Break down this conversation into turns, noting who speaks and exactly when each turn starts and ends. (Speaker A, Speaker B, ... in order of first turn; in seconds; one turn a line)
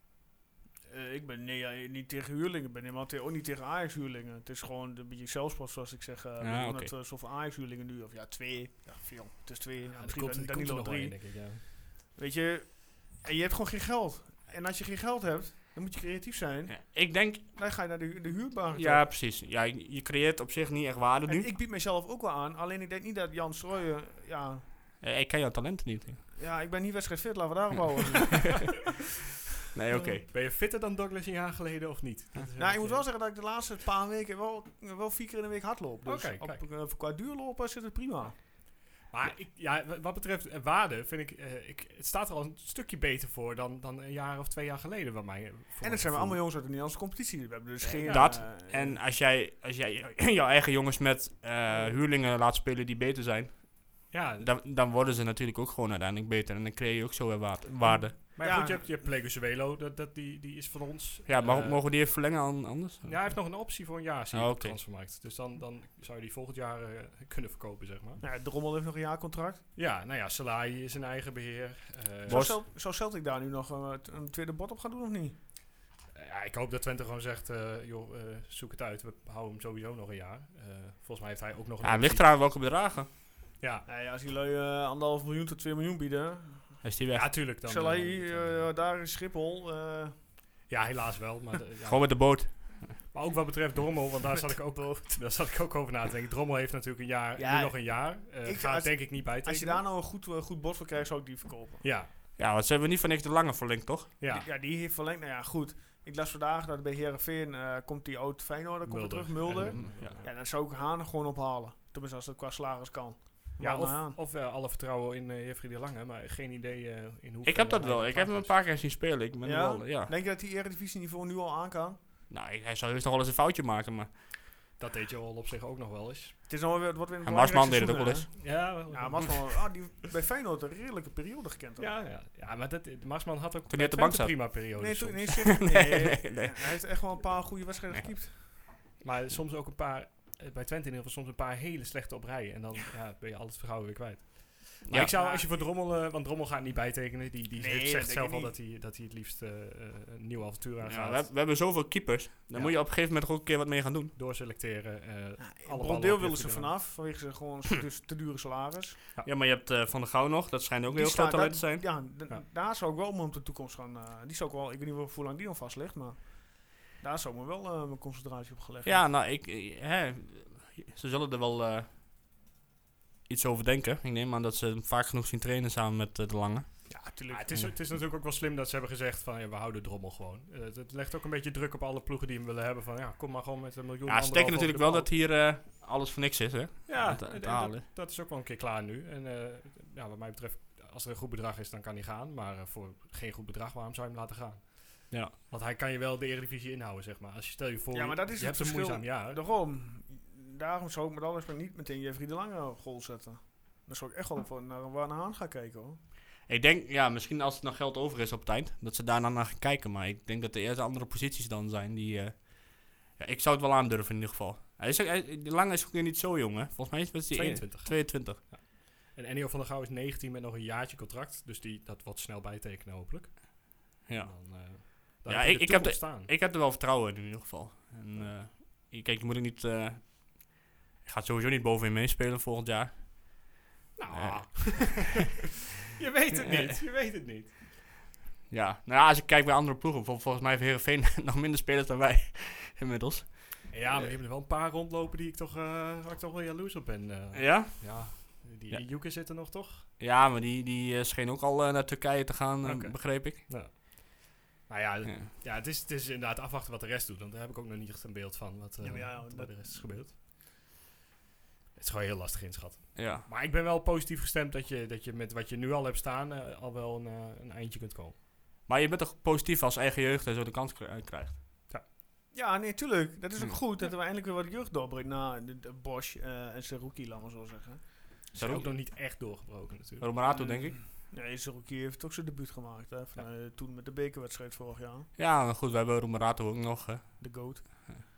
Speaker A: 0.9-19.1
Speaker B: 6.4-6.9
Speaker C: 9.8-11.6
Speaker B: 16.7-17.4
Speaker B: 18.7-21.5
Speaker A: 21.2-24.6
Speaker B: 25.0-26.2
Speaker A: 26.4-28.8
Speaker B: 29.7-30.2
Speaker A: 29.9-30.2
Speaker C: 30.2-33.1
Speaker A: 32.6-38.4
Speaker C: 36.0-36.6
Speaker C: 39.1-46.4
Speaker A: 45.8-49.0
Speaker C: 47.8-48.3
Speaker B: 48.0-58.2
Speaker A: 51.7-52.0
Speaker C: 54.1-54.5
Speaker A: 57.8-58.8
Speaker C: 58.2-62.1
Speaker B: 61.2-63.5
Speaker C: 63.0-68.2
Speaker B: 64.3-64.8
Speaker A: 68.2-69.6
Speaker C: 69.8-72.5
Speaker B: 72.3-72.6
Speaker A: 72.3-75.3
Speaker C: 76.1-82.2
Speaker B: 81.8-83.1
Speaker C: 83.6-83.8
Speaker A: 83.8-86.9
Speaker B: 86.8-87.4
Speaker C: 87.2-88.7
Speaker A: 87.6-90.3
Speaker C: 90.7-99.8
Speaker B: 91.8-93.0
Speaker A: 97.4-101.9
Speaker C: 101.8-102.1
Speaker B: 102.4-104.1
Speaker C: 104.2-104.5
Speaker A: 104.3-114.2
Speaker C: 108.8-110.3
Speaker B: 109.7-110.2
Speaker C: 113.6-118.5
Speaker B: 117.4-120.1
Speaker A: 119.4-122.0
Speaker B: 122.3-124.1
Speaker C: 124.8-126.3
Speaker A: 126.5-132.0
Speaker B: 127.2-128.3
Speaker C: 128.4-129.6
Speaker C: 131.8-135.5
Speaker B: 133.7-134.6
Speaker A: 134.8-138.5
Speaker B: 135.4-136.8
Speaker C: 139.0-151.3
Speaker B: 144.8-145.1
Speaker A: 145.0-145.7
Speaker A: 147.6-148.5
Speaker B: 150.8-154.1
Speaker C: 152.5-152.8
Speaker C: 154.1-156.8
Speaker A: 155.4-159.0
Speaker B: 159.2-161.9
Speaker A: 160.9-169.0
Speaker B: 168.8-171.9
Speaker B: 173.3-176.7
Speaker A: 176.9-177.7
Speaker C: 177.3-185.1
Speaker B: 184.1-187.8
Speaker C: 186.9-199.4
Speaker A: 197.9-206.0
Speaker B: 206.4-218.4
Speaker C: 217.3-226.3
Speaker B: 224.1-235.1
Speaker C: 233.9-235.3
Speaker C: 235.9-237.5
Speaker B: 236.3-236.8
Speaker B: 238.5-244.1
Speaker C: 243.7-249.9
Speaker B: 247.3-248.9
Speaker B: 250.0-253.4
Speaker C: 252.6-260.2
Speaker A: 258.8-260.1
Speaker C: 261.7-268.1
Speaker B: 262.9-263.2
Speaker B: 268.7-271.4
Speaker A: 272.3-278.1
Speaker C: 278.3-280.1
Speaker B: 278.3-278.7
Speaker B: 280.0-280.8
Speaker A: 280.2-285.1
Speaker B: 285.2-287.9
Speaker A: 287.2-287.9